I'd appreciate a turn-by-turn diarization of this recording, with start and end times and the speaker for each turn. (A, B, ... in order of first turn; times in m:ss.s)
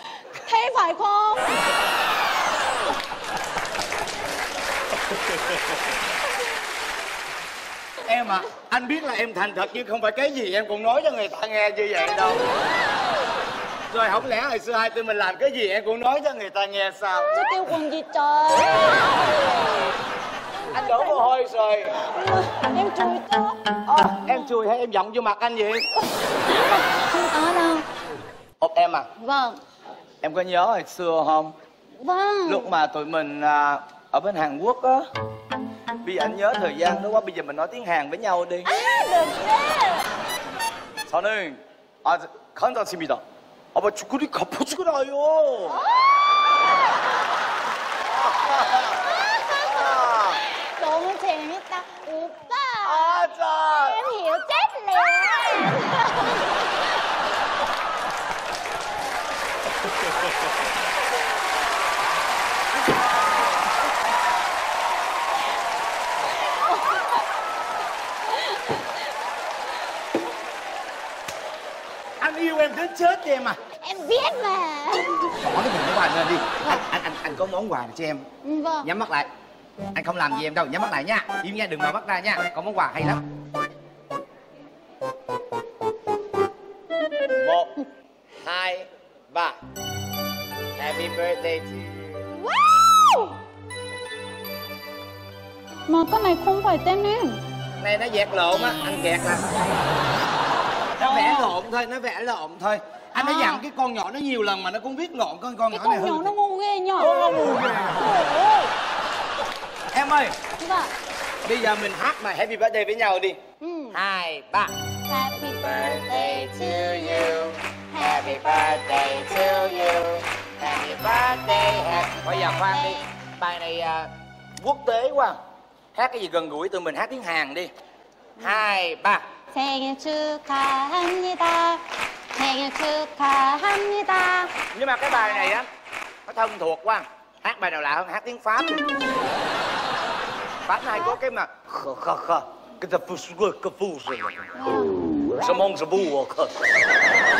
0:00.3-0:01.6 A
0:08.0-0:12.4 B
0:13.9-0:17.3 B
0:17.3-0:19.5 A
0:20.7-0:21.2 A
0:20.7-0:22.0 B
0:22.0-0:23.6 A
0:23.9-0:25.8 B
0:26.4-0:27.8 A
0:28.6-0:29.1 B
0:29.2-0:29.6 A
0:30.2-0:31.5 B
0:32.0-0:32.7 A
0:32.4-0:35.0 B
0:36.0-0:38.7 B
0:38.6-0:40.0 A
0:41.1-0:43.2 B
0:43.7-0:45.8 B
0:48.1-0:49.0 B
0:49.6-0:50.4 B
0:50.6-0:56.4 A
0:52.8-0:54.0 B
1:12.2-1:13.6 B
1:13.8-1:15.2 A
1:15.3-1:18.2 B
1:18.4-1:18.9 A
1:18.8-1:19.3 B
1:19.9-1:23.2 B
1:27.4-1:27.7 B
1:28.4-1:29.6 B
1:30.8-1:32.2 B
1:35.9-1:37.4 A
1:37.8-1:39.4 B
1:40.9-1:46.3 B
1:43.2-1:43.6 A
1:45.7-1:47.3 A
1:47.0-1:48.1 B
1:47.9-1:48.7 A
1:49.9-1:50.4 B
1:50.6-1:50.9 A
1:51.4-1:53.4 B
1:53.6-1:54.0 A
1:53.9-1:54.7 B
1:55.1-2:00.1 A
1:55.6-2:05.4 B
2:01.8-2:03.1 A
2:05.9-2:07.7 B
2:08.4-2:09.2 B
2:09.5-2:11.8 A
2:12.3-2:14.5 A
2:14.7-2:15.7 B
2:15.1-2:15.6 A
2:16.3-2:18.8 B
2:20.7-2:24.5 B
2:24.5-2:24.9 A
2:25.4-2:26.5 B